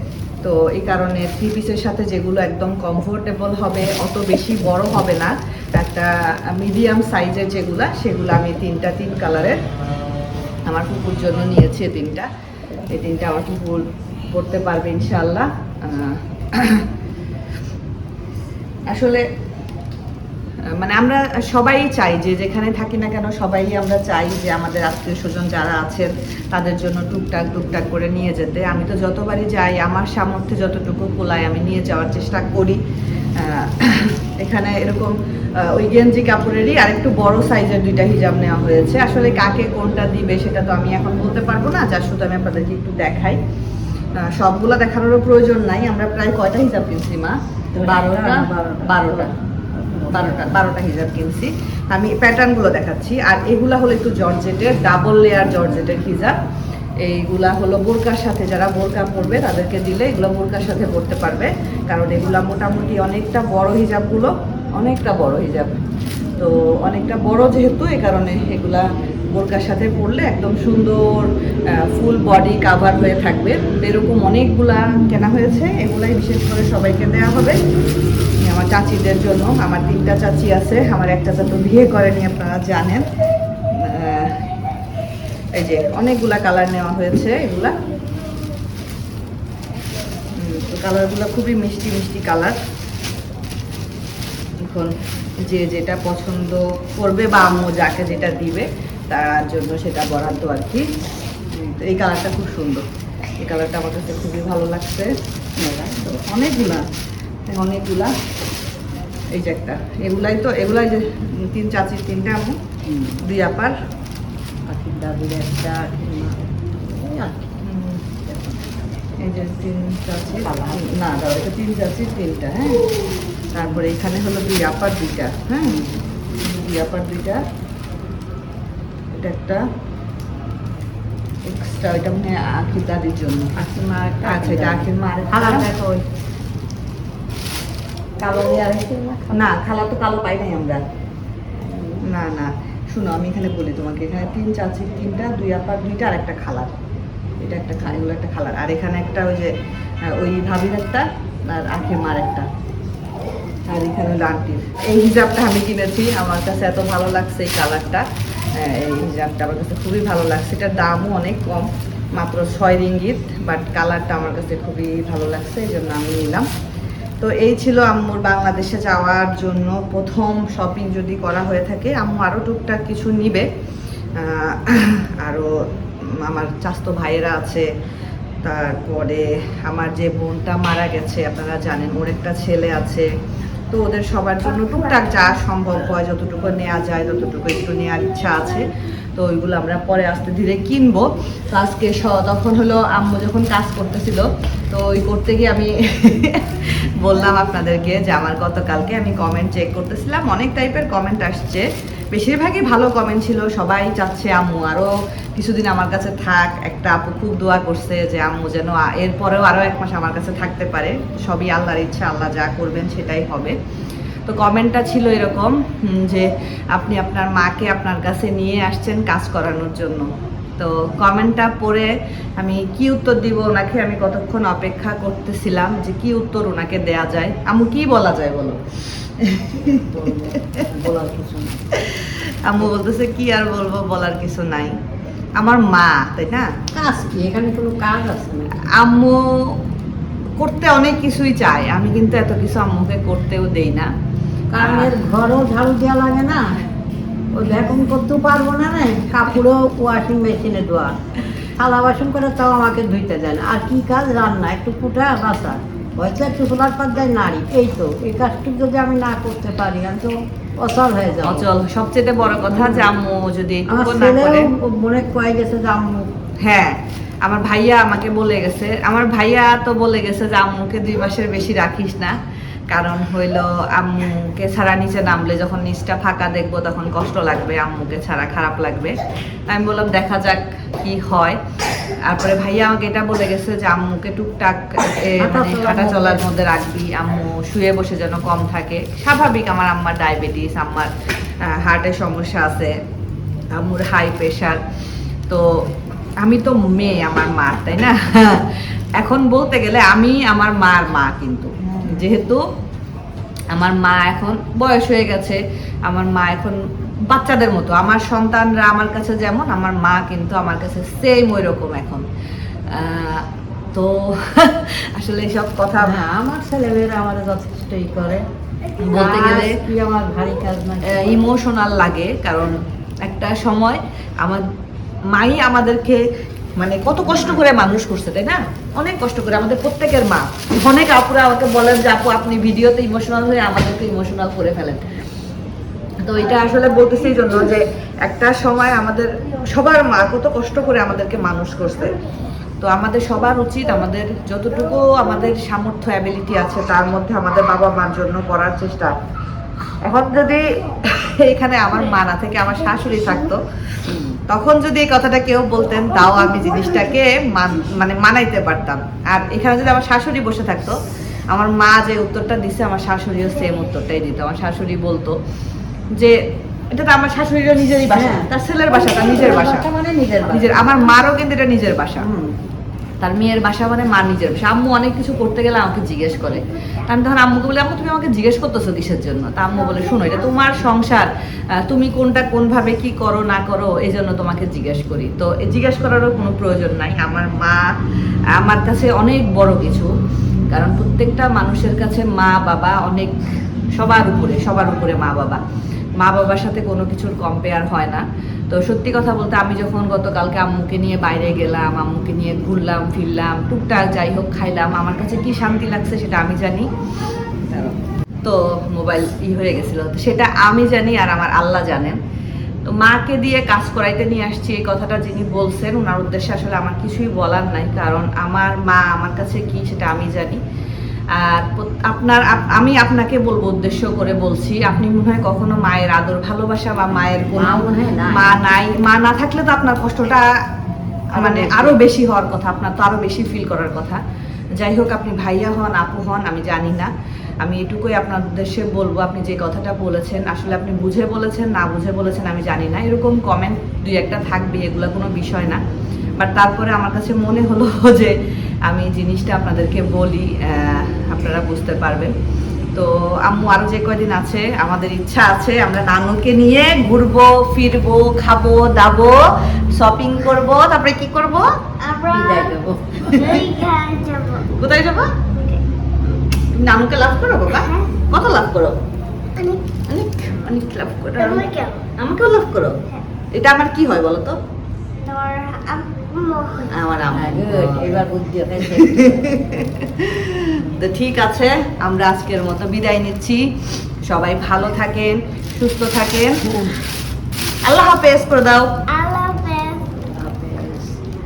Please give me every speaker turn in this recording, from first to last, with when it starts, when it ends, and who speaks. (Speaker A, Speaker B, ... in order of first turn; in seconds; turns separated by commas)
Speaker A: 0.4-9.6, Speaker A: 10.7-12.3, Speaker A: 12.9-16.9, Speaker A: 18.9-19.2, Speaker A: 20.7-32.8, Speaker A: 33.4-43.4, Speaker A: 44.2-49.3, Speaker B: 47.7-50.6, Speaker A: 50.1-56.4, Speaker A: 57.0-65.8, Speaker A: 66.4-77.6, Speaker A: 78.4-83.0, Speaker A: 83.8-84.3, Speaker A: 85.6-87.7, Speaker A: 90.3-92.6, Speaker A: 95.5-100.8, Speaker A: 101.5-102.8, Speaker A: 103.4-105.1, Speaker B: 105.6-105.9, Speaker A: 105.8-106.8, Speaker A: 107.5-108.1, Speaker A: 109.3-112.6, Speaker B: 112.9-113.2, Speaker A: 113.2-113.7, Speaker B: 114.7-117.5, Speaker A: 117.6-118.0, Speaker B: 118.2-118.8, Speaker A: 119.2-122.8, Speaker B: 120.4-120.9, Speaker A: 123.5-125.8, Speaker B: 125.7-126.0, Speaker A: 126.4-127.4, Speaker A: 129.1-129.6, Speaker A: 131.4-133.6, Speaker B: 133.6-136.1, Speaker A: 134.2-135.7, Speaker B: 138.2-139.5, Speaker A: 139.3-140.8, Speaker B: 141.6-142.0, Speaker A: 142.1-146.7, Speaker A: 147.4-149.5, Speaker A: 150.1-152.5, Speaker A: 153.7-166.5, Speaker A: 167.2-173.4, Speaker A: 174.2-175.5, Speaker A: 176.2-177.7, Speaker A: 178.4-183.1, Speaker A: 183.7-213.6, Speaker A: 214.2-228.6, Speaker A: 229.2-229.9, Speaker B: 229.7-231.6, Speaker A: 231.7-234.7, Speaker A: 235.4-236.5, Speaker B: 236.7-238.5, Speaker A: 238.7-239.6, Speaker A: 240.4-243.9, Speaker B: 244.5-246.6, Speaker A: 244.6-244.9, Speaker B: 247.3-250.9, Speaker B: 251.6-261.5, Speaker A: 261.2-264.5, Speaker B: 262.5-262.9, Speaker B: 263.7-266.1, Speaker A: 266.4-272.2, Speaker A: 272.7-278.9, Speaker A: 279.5-281.4, Speaker A: 282.1-290.9, Speaker B: 285.2-286.2, Speaker A: 291.4-292.7, Speaker A: 293.6-294.6, Speaker A: 296.2-302.4, Speaker A: 303.5-312.1, Speaker A: 312.7-316.0, Speaker B: 315.8-318.2, Speaker B: 318.8-321.2, Speaker A: 318.8-319.6, Speaker A: 320.9-324.4, Speaker A: 325.1-326.0, Speaker A: 326.6-334.9, Speaker A: 336.0-341.9, Speaker A: 342.6-348.9, Speaker A: 349.8-353.4, Speaker A: 354.1-360.8, Speaker A: 361.3-365.2, Speaker A: 366.7-369.7, Speaker B: 367.9-370.9, Speaker A: 370.3-372.0, Speaker B: 372.0-372.3, Speaker A: 373.0-381.1, Speaker A: 381.6-387.7, Speaker A: 388.4-389.9, Speaker A: 390.5-393.1, Speaker A: 393.8-395.4, Speaker A: 396.0-406.7, Speaker A: 407.5-412.0, Speaker A: 412.7-420.4, Speaker A: 421.1-430.3, Speaker B: 427.3-428.4, Speaker B: 431.1-431.8, Speaker A: 431.1-434.0, Speaker A: 434.6-436.9, Speaker A: 437.4-445.6, Speaker A: 446.2-448.1, Speaker A: 448.7-452.1, Speaker A: 452.8-459.2, Speaker A: 459.7-461.4, Speaker C: 461.8-462.6, Speaker B: 462.1-463.4, Speaker A: 463.1-463.4, Speaker C: 463.1-464.5, Speaker A: 464.6-465.1, Speaker C: 465.3-465.6, Speaker A: 466.5-468.8, Speaker C: 467.5-467.9, Speaker C: 469.4-469.6, Speaker A: 469.9-471.4, Speaker C: 471.2-471.9, Speaker A: 472.0-472.8, Speaker A: 473.3-474.4, Speaker C: 475.0-476.7, Speaker A: 476.7-478.0, Speaker B: 477.1-479.3, Speaker A: 478.7-486.4, Speaker A: 487.6-488.7, Speaker C: 488.9-489.9, Speaker B: 490.2-491.0